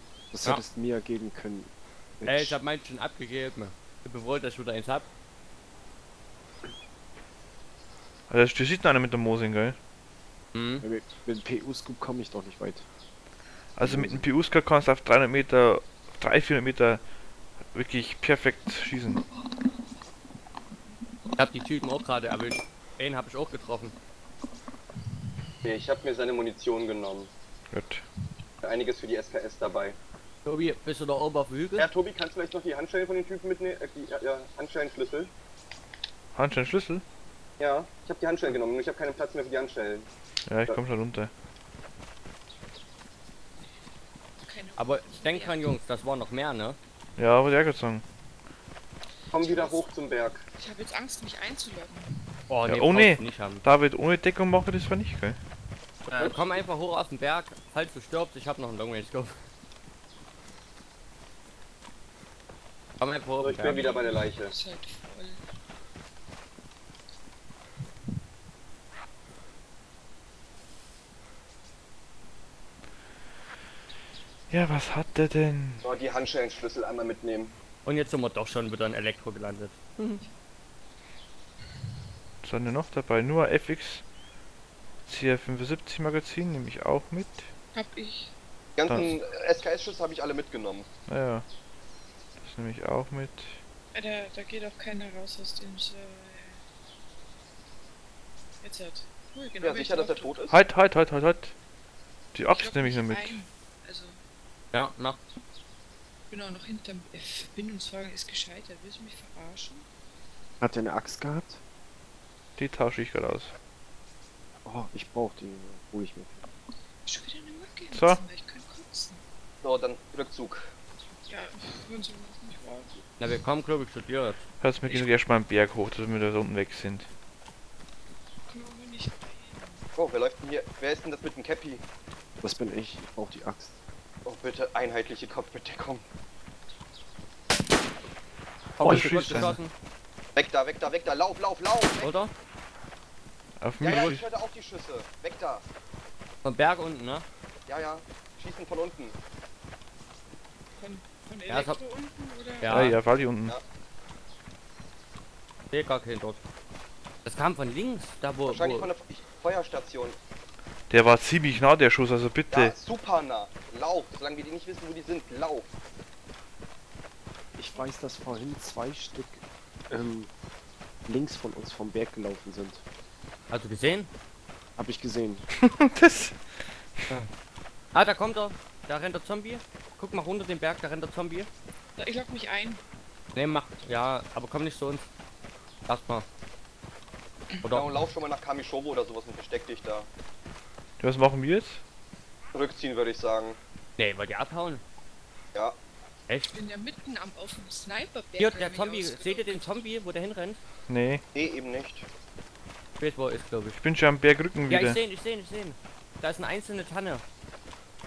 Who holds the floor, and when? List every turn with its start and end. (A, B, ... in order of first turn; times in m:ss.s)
0:00.3-0:02.6 A
0:02.2-0:05.1 B
0:08.3-0:09.8 C
0:10.5-0:10.8 B
0:10.8-0:12.8 A
0:13.8-0:17.0 C
0:13.8-0:14.3 A
0:17.7-0:19.2 C
0:21.4-0:23.9 B
0:25.6-0:27.3 D
0:27.7-0:28.0 C
0:28.6-0:30.0 D
0:30.4-0:31.9 B
0:31.8-0:35.3 D
0:36.3-0:37.0 C
0:37.6-0:40.1 D
0:40.5-0:41.3 C
0:44.4-0:45.7 E
0:44.8-0:46.8 B
0:47.2-0:48.0 C
0:49.3-0:50.4 D
0:49.3-0:49.9 E
0:50.6-0:52.4 E
0:52.5-0:53.6 B
0:52.7-0:55.4 C
0:56.1-0:59.4 B
0:56.2-0:56.6 D
1:03.0-1:03.8 B
1:03.4-1:04.5 D
1:03.7-1:05.4 E
1:14.5-1:15.8 C
1:15.8-1:17.5 D
1:17.8-1:20.2 B
1:22.4-1:24.0 C
1:25.0-1:27.5 C
1:27.7-1:28.3 E
1:28.8-1:30.9 D
1:28.8-1:29.1 C
1:31.1-1:31.4 C
1:32.4-1:33.6 C
1:33.9-1:36.6 E
1:38.6-1:40.3 E
1:39.6-1:40.6 D
1:40.5-1:41.5 C
1:42.3-1:43.4 C
1:42.5-1:44.2 E
1:44.7-1:45.2 B
1:46.3-1:49.8 E
1:50.6-1:51.6 A
1:52.6-1:53.5 C
1:54.6-1:56.4 A
1:57.0-1:59.2 E
1:57.9-1:58.2 C
1:59.6-2:00.7 D
2:01.3-2:03.0 E
2:03.2-2:05.1 B
2:04.6-2:07.1 C
2:08.5-2:09.8 E
2:10.0-2:11.8 D
2:12.4-2:13.8 A
2:14.2-2:16.0 D
2:18.8-2:19.7 B
2:18.8-2:19.6 C
2:20.4-2:22.1 D
2:22.0-2:22.3 B
2:23.6-2:24.3 C
2:23.8-2:25.6 D
2:26.4-2:27.2 B
2:27.7-2:29.2 D
2:30.8-2:32.9 E
2:31.5-2:31.8 B
2:32.6-2:33.0 B
2:32.7-2:33.6 C
2:35.7-2:36.4 B
2:37.2-2:38.9 B
2:38.5-2:40.2 D
2:40.9-2:42.7 C
2:42.5-2:45.7 D
2:47.6-2:50.3 A
2:51.0-2:52.8 A
2:53.5-2:54.1 B
2:54.8-2:55.4 A
2:55.6-2:56.4 C
2:57.9-3:01.5 B
3:02.0-3:02.8 E
3:03.3-3:05.0 B
3:05.9-3:06.2 B
3:07.6-3:07.9 B
3:07.7-3:10.1 D
3:11.0-3:11.8 C
3:12.5-3:13.6 D
3:14.0-3:14.8 B
3:16.3-3:16.6 B
3:16.5-3:19.7 E
3:18.4-3:20.6 B
3:20.9-3:21.2 C
3:21.3-3:22.0 D
3:23.0-3:23.8 B
3:23.8-3:25.0 C
3:24.7-3:27.2 B